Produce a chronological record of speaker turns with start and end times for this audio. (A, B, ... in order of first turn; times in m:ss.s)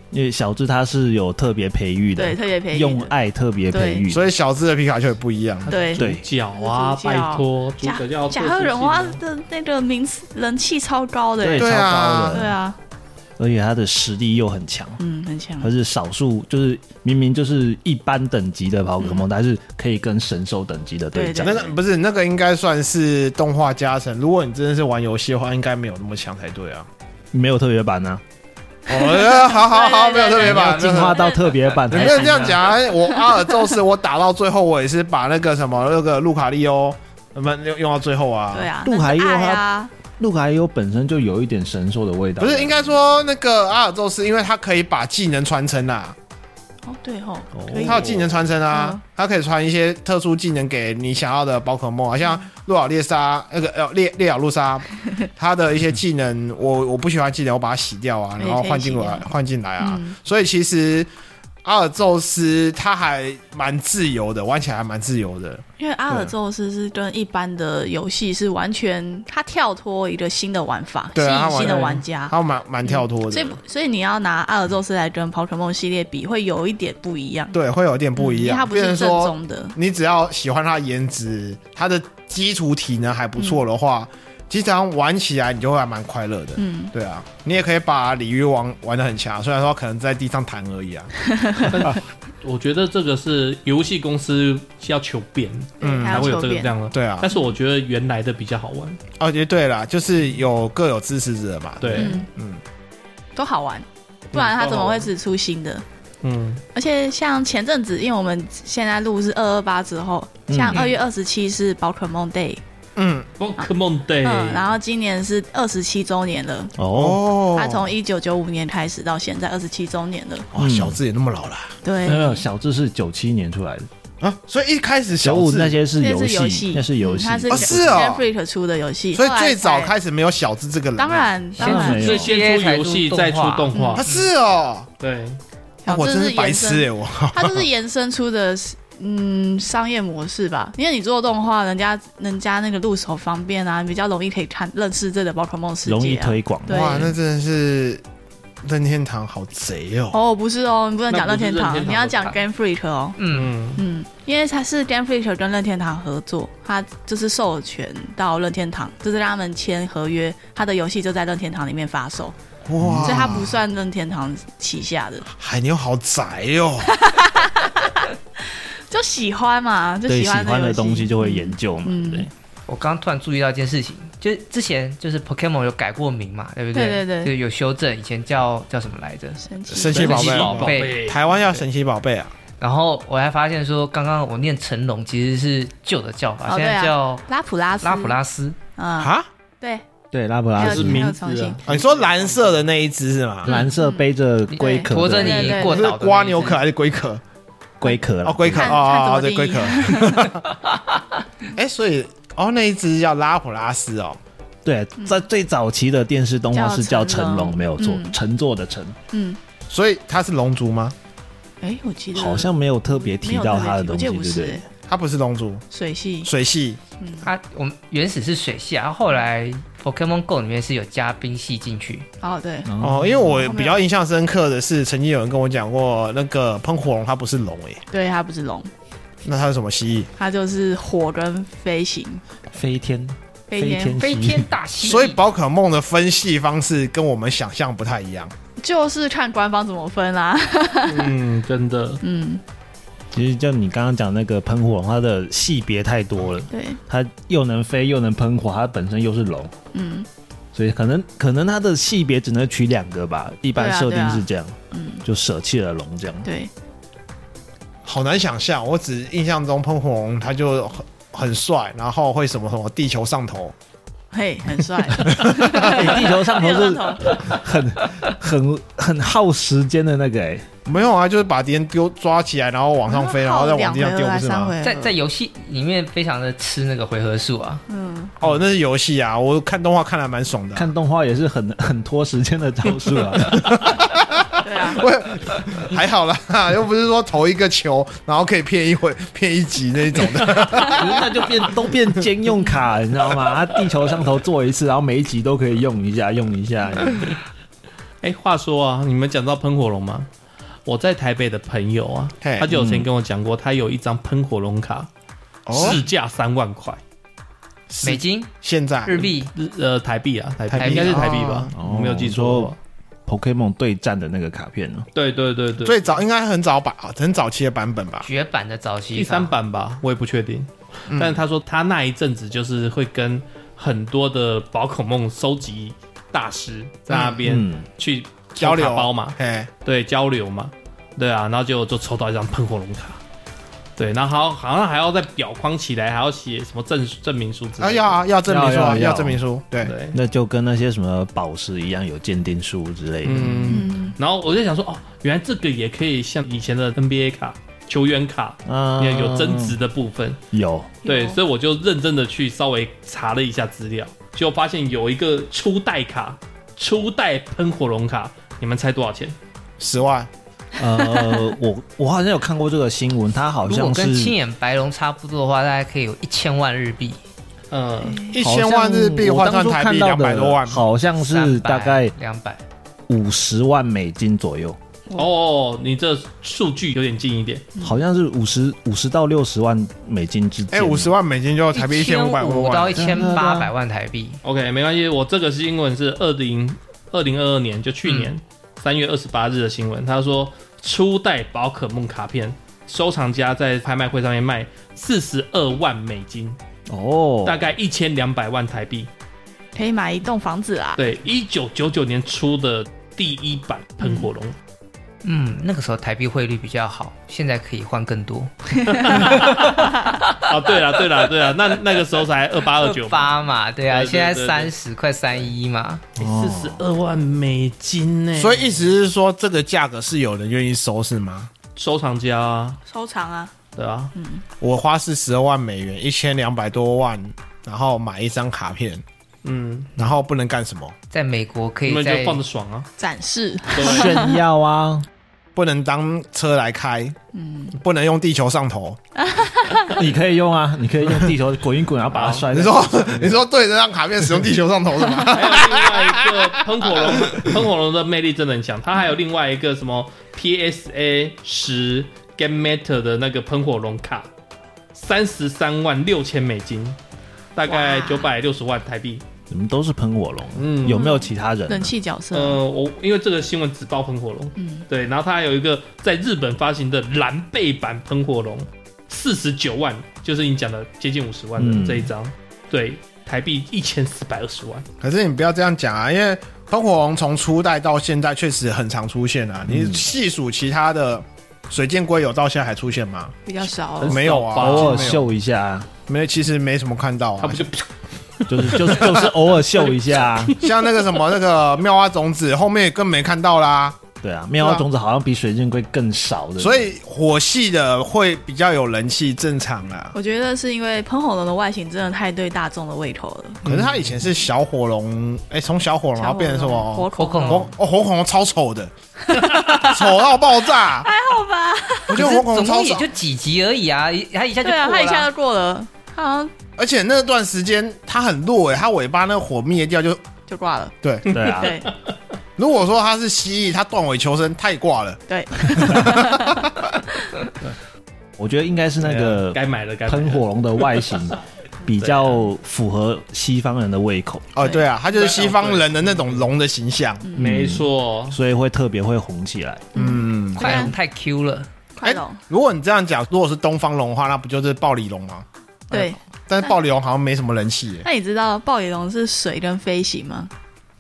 0:00.1-0:04.3 A
0:02.2-0:03.1 B
0:03.7-0:04.1 B
0:04.1-0:05.7 C
0:05.7-0:09.2 D
0:05.7-0:12.8 B
0:06.0-0:06.2 A
0:11.4-0:12.6 A
0:11.6-0:12.5 C
0:13.4-0:15.0 A
0:15.0-0:15.7 B
0:15.6-0:21.7 A
0:19.0-0:19.2 B
0:21.1-0:21.7 B
0:21.4-0:26.9 C
0:27.3-0:28.2 A
0:28.9-0:31.2 C
0:28.9-0:33.5 B
0:30.4-0:32.7 A
0:31.9-0:38.7 C
0:38.5-0:39.9 B
0:38.8-0:39.6 A
0:40.2-0:43.0 A
0:42.4-0:46.2 C
0:46.9-0:49.0 B
0:47.6-0:48.1 A
0:47.8-1:01.1 C
0:58.4-0:59.3 B
0:59.8-1:00.2 B
1:01.6-1:06.3 C
1:05.8-1:17.6 B
1:11.2-1:13.6 C
1:11.6-1:11.9 D
1:17.5-1:31.1 C
1:18.2-1:19.8 B
1:23.4-1:23.6 B
1:26.6-1:26.9 B
1:31.2-1:31.7 B
1:31.7-1:39.0 D
1:35.8-1:36.7 B
1:35.8-1:36.4 C
1:36.9-1:37.3 C
1:39.2-1:42.6 C
1:41.8-1:42.2 D
1:42.0-1:42.3 B
1:43.4-1:45.8 B
1:44.3-1:45.1 D
1:46.2-1:46.6 D
1:46.7-1:52.6 B
1:50.5-1:50.9 A
1:53.0-1:53.3 C
1:53.4-1:54.7 D
1:54.2-1:56.8 B
1:56.8-1:57.2 A
1:56.9-1:57.9 C
1:57.5-2:00.5 B
2:00.5-2:01.7 C
2:00.6-2:01.0 A
2:01.8-2:02.4 B
2:02.0-2:03.9 A
2:04.2-2:05.8 C
2:05.2-2:08.1 A
2:06.0-2:09.9 B
2:07.5-2:08.2 C
2:09.1-2:11.3 C
2:11.0-2:12.1 B
2:11.6-2:14.3 E
2:11.6-2:12.4 A
2:11.7-2:14.1 D
2:13.7-2:14.0 B
2:14.0-2:14.9 C
2:15.0-2:15.4 D
2:15.8-2:27.1 B
2:15.9-2:17.6 C
2:25.9-2:27.2 A
2:26.7-2:28.0 C
2:28.6-2:30.2 C
2:30.1-2:33.2 B
2:31.1-2:32.4 D
2:33.2-2:33.5 E
2:33.3-2:33.8 D
2:33.8-2:42.3 B
2:42.7-2:43.6 C
2:42.8-2:43.4 A
2:42.9-2:45.3 B
2:45.3-2:47.0 C
2:46.8-2:52.3 B
2:50.1-2:52.3 A
2:52.7-3:01.0 E
2:56.7-2:57.3 B
2:59.4-3:00.4 B
2:59.7-3:02.3 C
3:00.0-3:01.2 D
3:02.6-3:07.2 E
3:06.5-3:08.2 B
3:07.8-3:08.6 E
3:08.8-3:09.8 B
3:09.0-3:09.3 C
3:10.1-3:11.1 A
3:10.6-3:11.8 B
3:10.6-3:11.9 D
3:11.7-3:13.6 C
3:13.4-3:15.6 A
3:13.5-3:15.9 B
3:14.5-3:16.6 E
3:15.6-3:17.2 C
3:17.8-3:18.8 A
3:18.2-3:20.5 C
3:18.6-3:20.4 B
3:21.6-3:24.2 C
3:24.6-3:29.0 A
3:25.0-3:25.2 B
3:26.5-3:28.2 B
3:29.1-3:29.4 B
3:29.7-3:31.0 C
3:31.6-3:34.6 B
3:32.1-3:34.6 A
3:34.9-3:35.6 C
3:35.7-3:36.3 B
3:36.2-3:36.8 C
3:37.0-3:37.3 B
3:37.2-3:42.1 E
3:42.2-3:42.7 B
3:42.7-3:43.6 A
3:42.8-3:47.8 C
3:43.3-3:43.8 B
3:47.9-3:48.7 B
3:49.2-3:50.1 C
3:50.2-3:52.2 B
3:52.5-3:54.5 A
3:53.5-3:54.0 B
3:54.0-3:55.2 E
3:54.8-3:58.3 C
3:58.6-4:01.1 B
4:00.9-4:02.0 D
4:02.0-4:02.4 B
4:03.1-4:09.5 A
4:06.5-4:06.8 B
4:09.7-4:10.1 B
4:10.5-4:16.3 A
4:13.6-4:15.0 B
4:16.2-4:16.5 B
4:17.8-4:23.6 C
4:24.1-4:27.2 B
4:25.1-4:25.8 C
4:25.4-4:30.5 A
4:30.7-4:34.6 C
4:32.9-4:35.0 B
4:34.6-4:37.6 E
4:37.7-4:38.1 B
4:38.2-4:40.7 C
4:40.6-4:43.7 A
4:43.3-4:51.0 C
4:44.4-4:44.8 B
4:50.6-4:57.1 A
4:58.0-5:00.1 D
5:00.7-5:04.9 D
5:02.2-5:02.5 C
5:02.5-5:02.9 A
5:05.5-5:05.8 C
5:05.5-5:06.8 D
5:07.7-5:09.1 C
5:07.8-5:08.3 E
5:08.9-5:09.3 E
5:09.4-5:12.6 D
5:10.5-5:11.5 C
5:10.6-5:11.2 E
5:11.5-5:12.5 A
5:13.1-5:14.9 A
5:15.0-5:16.0 D
5:15.6-5:18.1 C
5:18.0-5:19.3 E
5:18.9-5:33.0 D
5:20.9-5:21.2 C
5:26.9-5:27.2 C
5:27.2-5:27.7 A
5:28.4-5:29.5 C
5:33.8-5:38.0 D
5:37.6-5:39.7 C
5:38.2-5:39.2 A
5:39.6-5:40.0 D
5:39.9-5:43.7 A
5:43.0-5:50.2 D
5:43.5-5:44.0 B
5:48.5-5:49.6 A
5:50.3-5:50.8 A
5:50.8-5:51.2 B
5:50.8-5:59.2 D
5:59.6-6:00.1 C
6:00.6-6:04.2 A
6:00.9-6:01.2 B
6:03.5-6:07.0 E
6:07.5-6:08.0 D
6:07.8-6:08.2 B
6:08.1-6:10.6 C
6:08.2-6:11.9 A
6:11.0-6:12.4 E
6:12.9-6:14.6 A
6:15.0-6:17.5 D
6:17.6-6:20.9 A
6:20.5-6:23.0 C
6:21.5-6:24.2 E
6:22.7-6:23.5 A
6:24.2-6:36.4 D
6:27.9-6:28.1 E
6:36.7-6:37.5 A
6:37.2-6:38.9 D
6:39.6-6:40.8 B
6:40.8-6:44.4 D
6:43.8-6:44.1 B
6:45.0-6:50.3 E
6:48.6-6:49.0 B
6:48.7-6:54.5 D
6:49.7-6:50.0 B
6:52.5-6:55.8 E
6:56.0-6:58.7 D
6:56.0-6:56.6 A
6:58.2-7:01.3 C
7:01.6-7:02.6 D
7:02.7-7:03.3 B
7:03.6-7:03.9 D
7:04.0-7:04.2 B
7:04.4-7:08.8 C
7:09.2-7:09.7 D
7:09.8-7:10.8 C
7:10.9-7:12.2 E
7:11.7-7:12.7 D
7:12.8-7:14.2 B
7:13.5-7:14.0 D
7:13.6-7:14.9 A
7:15.4-7:17.0 C
7:17.1-7:17.6 B
7:17.6-7:18.8 C
7:19.0-7:19.8 B
7:19.7-7:23.2 A
7:21.9-7:22.3 D
7:22.3-7:27.3 C
7:25.1-7:34.1 D
7:34.7-7:36.8 D
7:37.4-7:39.0 D
7:37.5-7:38.1 B
7:39.3-7:41.7 A
7:40.4-7:40.9 D
7:40.6-7:42.4 B
7:42.1-7:54.7 D
7:44.4-7:44.6 B
7:51.4-7:51.9 A
7:54.8-8:03.2 C
7:59.5-7:59.9 A
8:03.3-8:04.1 B
8:03.8-8:05.0 D
8:03.9-8:05.1 C
8:04.4-8:05.7 A
8:05.9-8:07.5 C
8:07.2-8:07.7 D
8:08.2-8:10.9 D
8:08.3-8:10.4 A
8:10.4-8:13.8 C
8:14.0-8:16.7 A
8:14.4-8:14.7 C
8:16.4-8:19.9 C
8:19.9-8:23.4 B
8:23.4-8:30.9 C
8:26.0-8:27.5 B
8:27.0-8:27.5 E
8:29.1-8:32.2 B
8:31.9-8:32.9 C
8:31.9-8:35.1 E
8:34.4-8:36.3 B
8:36.6-8:40.0 C
8:40.3-8:41.7 B
8:40.8-8:41.1 C
8:41.1-8:41.6 A
8:41.1-8:41.9 D
8:42.4-8:46.7 C
8:45.1-8:46.5 B
8:48.2-8:54.3 A
8:48.8-8:51.0 D
8:51.8-8:52.3 D
8:54.4-8:57.0 C
8:54.9-8:56.3 D
8:57.0-8:57.3 B
8:57.2-8:58.2 D
8:57.2-8:59.7 A
8:59.7-9:00.8 B
8:59.8-9:00.7 C
9:00.4-9:01.5 E
9:01.8-9:02.2 B
9:01.8-9:07.9 C
9:05.7-9:06.5 B
9:07.8-9:10.3 B